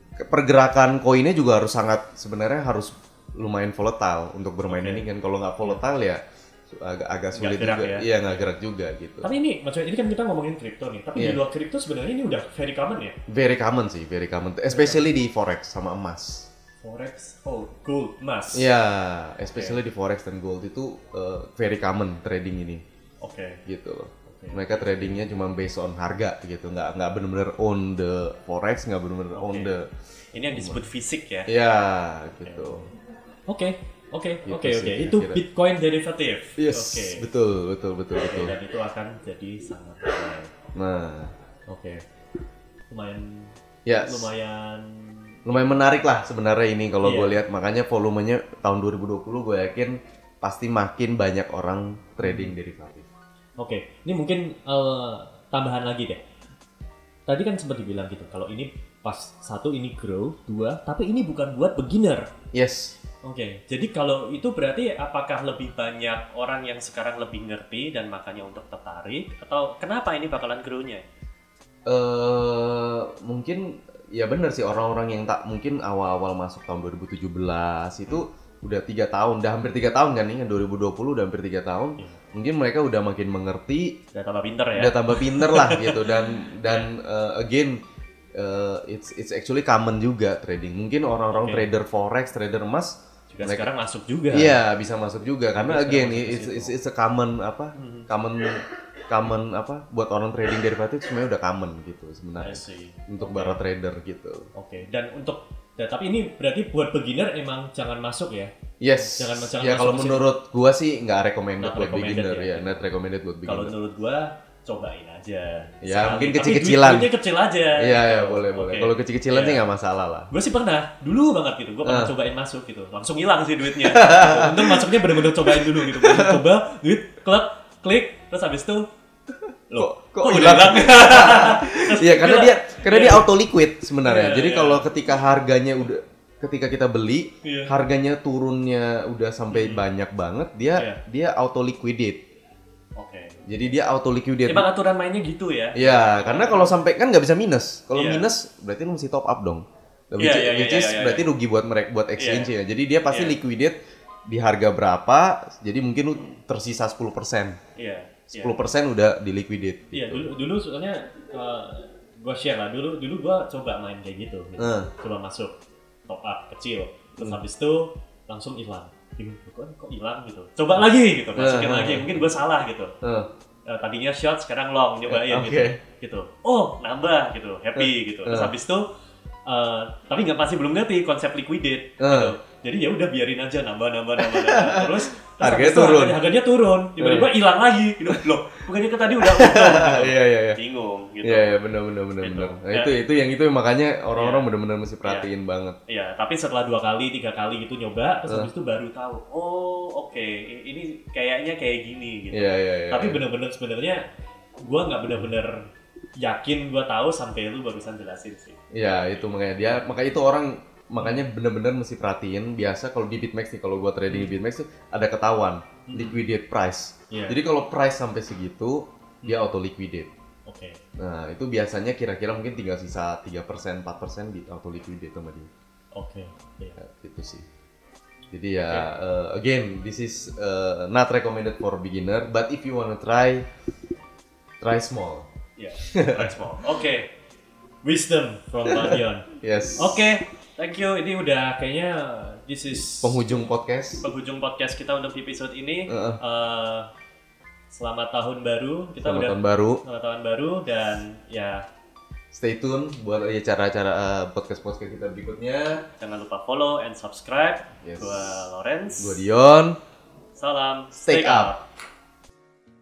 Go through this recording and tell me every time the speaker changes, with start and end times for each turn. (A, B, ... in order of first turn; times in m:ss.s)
0:00.2-0:09.3 A
0:04.7-0:05.0 B
0:07.3-0:08.4 B
0:09.2-0:13.2 B
0:11.2-0:11.4 A
0:13.3-0:16.5 A
0:14.7-0:15.0 B
0:16.8-0:18.7 B
0:18.5-0:22.8 A
0:19.4-0:19.8 B
0:23.2-0:23.6 B
0:23.7-0:29.9 A
0:24.3-0:25.2 B
0:29.3-0:29.7 B
0:30.3-0:31.5 B
0:30.5-0:30.8 A
0:31.5-0:32.9 A
0:32.3-0:32.9 B
0:33.5-0:37.3 B
0:34.4-0:35.4 A
0:36.6-0:38.5 A
0:38.1-0:40.5 B
0:40.7-0:41.3 A
0:41.7-0:42.0 B
0:42.9-0:45.9 B
0:43.8-0:44.3 A
0:45.4-0:53.0 A
0:47.0-0:47.4 B
0:52.2-0:52.6 B
0:53.6-0:56.2 B
0:57.3-1:02.3 B
1:02.5-1:03.0 A
1:03.2-1:11.0 B
1:11.8-1:24.0 A
1:24.1-1:26.9 B
1:24.8-1:27.8 A
1:28.3-1:33.7 A
1:31.3-1:31.7 B
1:33.3-1:34.6 B
1:34.3-1:44.5 A
1:35.6-1:36.8 B
1:37.7-1:38.1 B
1:42.4-1:43.6 B
1:44.5-1:50.3 B
1:48.8-1:53.8 A
1:51.6-1:52.9 B
1:53.4-1:59.6 B
1:55.8-1:57.1 A
1:57.7-2:00.3 A
2:00.3-2:08.9 B
2:01.8-2:02.1 A
2:03.8-2:06.4 A
2:09.7-2:13.3 B
2:09.7-2:22.2 A
2:14.0-2:14.9 B
2:17.4-2:17.8 B
2:19.5-2:19.8 B
2:23.0-2:23.4 B
2:23.5-2:24.7 A
2:24.4-2:26.7 B
2:25.7-2:33.8 A
2:27.9-2:28.3 B
2:30.2-2:31.3 B
2:32.2-2:32.5 B
2:33.1-2:33.4 B
2:34.3-2:37.6 A
2:37.8-2:38.6 B
2:38.3-2:40.3 A
2:39.9-2:45.5 B
2:44.6-2:44.9 A
2:46.1-2:52.9 B
2:51.3-2:52.3 A
2:53.0-2:53.3 A
2:53.6-2:58.8 B
2:55.1-2:55.8 A
2:57.8-2:58.5 A
2:59.4-3:11.6 B
3:02.0-3:02.3 A
3:04.2-3:06.2 A
3:07.0-3:07.3 A
3:09.0-3:10.6 A
3:11.2-3:15.8 A
3:12.2-3:13.0 B
3:14.1-3:14.5 B
3:15.0-3:15.3 B
3:15.9-3:24.0 B
3:22.3-3:23.2 A
3:24.6-3:28.6 B
3:28.7-3:40.1 A
3:31.0-3:31.2 B
3:34.1-3:34.3 B
3:35.9-3:36.2 B
3:37.1-3:37.4 B
3:40.4-3:40.8 B
3:41.0-3:45.5 A
3:45.9-3:46.8 B
3:46.8-3:47.4 A
3:48.3-3:53.5 A
3:54.6-3:55.3 A
3:55.6-3:57.1 B
3:55.9-3:56.5 A
3:57.8-4:03.2 B
3:58.6-4:00.1 A
4:03.0-4:04.0 A
4:04.0-4:06.9 B
4:05.9-4:06.2 A
4:07.7-4:11.6 B
4:09.0-4:09.8 A
4:12.3-4:15.8 A
4:16.0-4:19.2 B
4:17.8-4:18.4 A
4:19.0-4:19.8 A
4:20.3-4:21.6 B
4:21.0-4:21.5 A